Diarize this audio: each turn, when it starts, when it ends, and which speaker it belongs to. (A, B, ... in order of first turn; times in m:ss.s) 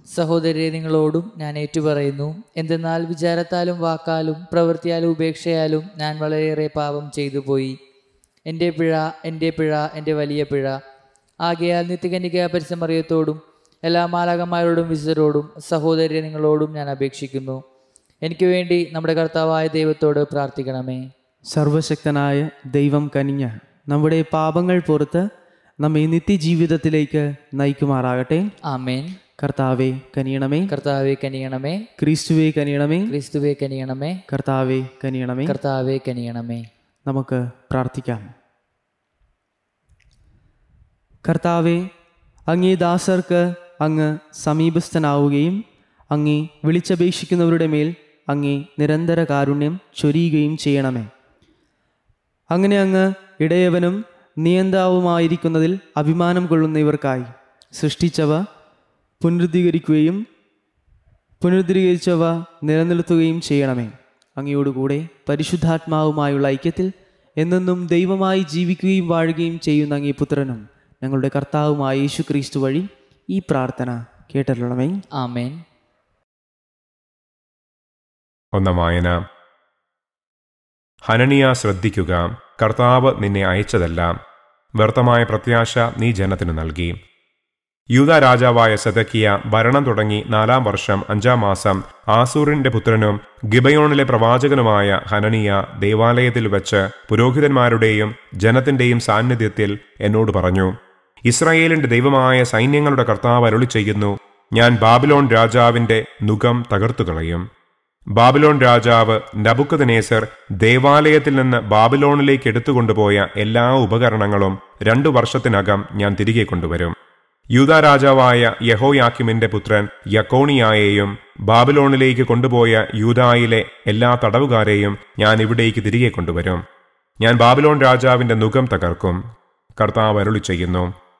0:00.1-0:07.8 A
0:08.5-0:10.8 A
0:11.4-0:17.6 A
0:18.2-0:21.1 A
0:21.5-0:25.3 B
0:25.8-0:28.5 B
0:28.6-0:29.2 A
0:29.4-0:30.7 B
0:30.7-0:31.8 A
0:32.0-0:33.1 B
0:33.1-0:34.2 A
0:34.3-0:35.5 B
0:35.4-0:36.6 A
0:37.1-0:38.3 B
0:41.2-0:41.9 B
0:42.5-0:45.6 B
0:46.1-0:51.1 B
0:52.5-0:58.4 B
0:59.2-1:00.2 B
1:01.4-1:15.0 B
1:15.2-1:15.6 A
1:18.5-1:19.2 C
1:21.0-1:24.2 C
1:24.8-1:27.0 C
1:27.9-1:40.7 C
1:41.3-1:47.4 C
1:48.2-1:56.9 C
1:57.5-2:06.6 C
2:07.2-2:09.2 C
2:09.8-2:10.9 C